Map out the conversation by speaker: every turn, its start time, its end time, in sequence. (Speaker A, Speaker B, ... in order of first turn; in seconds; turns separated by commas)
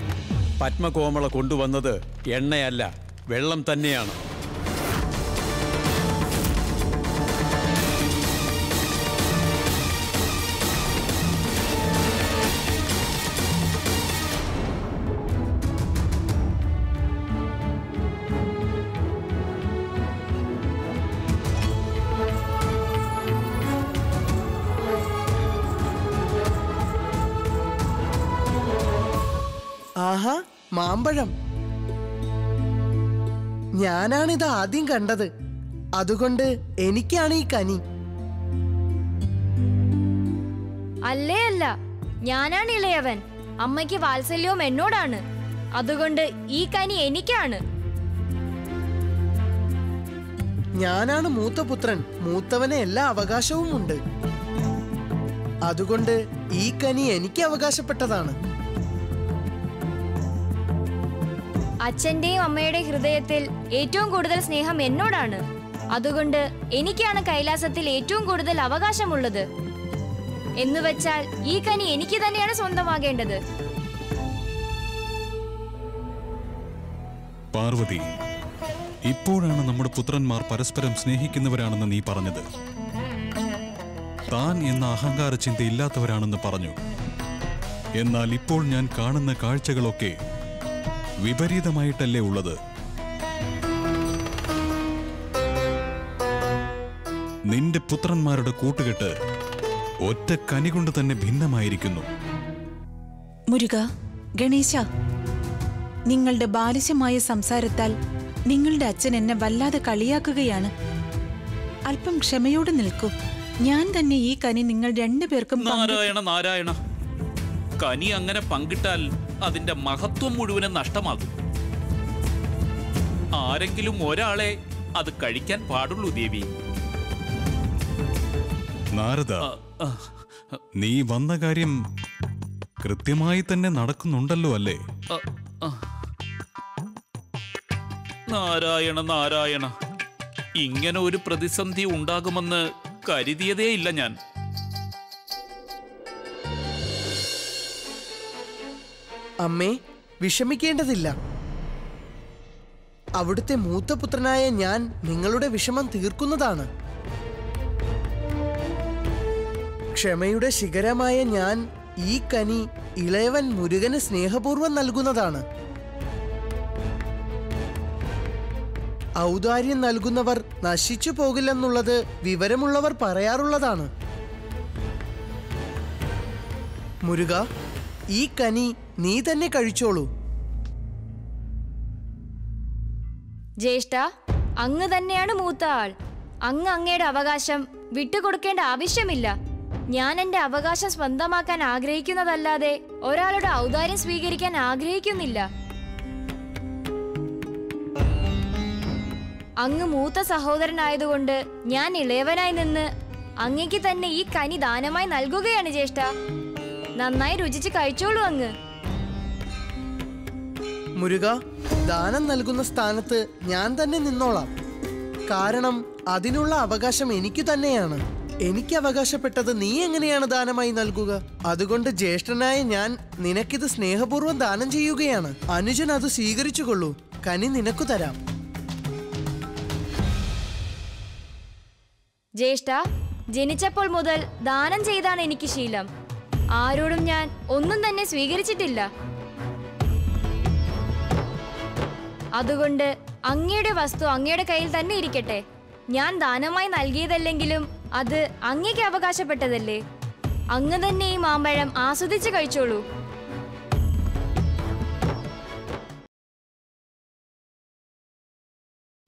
Speaker A: 0.6-4.2, Speaker B: 30.0-31.3, Speaker B: 33.8-35.3, Speaker B: 36.0-37.8, Speaker C: 41.1-41.7, Speaker C: 42.3-45.2, Speaker C: 45.8-47.6, Speaker B: 50.8-54.0, Speaker B: 55.7-58.3, Speaker C: 61.8-65.4, Speaker C: 65.9-69.4, Speaker C: 70.6-73.4, Speaker D: 77.5-78.0, Speaker D: 79.1-82.4, Speaker D: 84.3-86.8, Speaker D: 88.0-90.2, Speaker D: 91.2-92.6, Speaker D: 97.5-99.1, Speaker D: 100.0-102.1, Speaker E: 103.5-103.8, Speaker E: 104.4-104.8, Speaker E: 106.1-107.9, Speaker E: 108.5-110.7, Speaker E: 111.9-116.1, Speaker F: 115.6-116.8, Speaker F: 117.8-121.3, Speaker F: 123.4-126.5, Speaker D: 128.9-129.5, Speaker F: 129.4-130.6, Speaker D: 130.8-131.7, Speaker D: 132.8-134.8, Speaker F: 135.1-135.8, Speaker F: 138.3-139.7, Speaker F: 140.6-144.1, Speaker B: 149.4-151.1, Speaker B: 153.2-156.7, Speaker B: 159.9-165.4, Speaker B: 169.2-173.9, Speaker B: 177.0-177.4, Speaker B: 178.1-180.1, Speaker C: 183.6-184.0, Speaker C: 184.6-185.9, Speaker C: 186.5-189.3, Speaker C: 189.9-195.4, Speaker C: 199.6-202.9, Speaker C: 203.4-206.1, Speaker C: 207.0-208.5, Speaker B: 211.0-214.5, Speaker B: 215.3-228.2, Speaker C: 232.4-232.8, Speaker C: 233.3-235.9, Speaker C: 236.6-238.9, Speaker C: 242.4-249.8, Speaker C: 250.5-252.8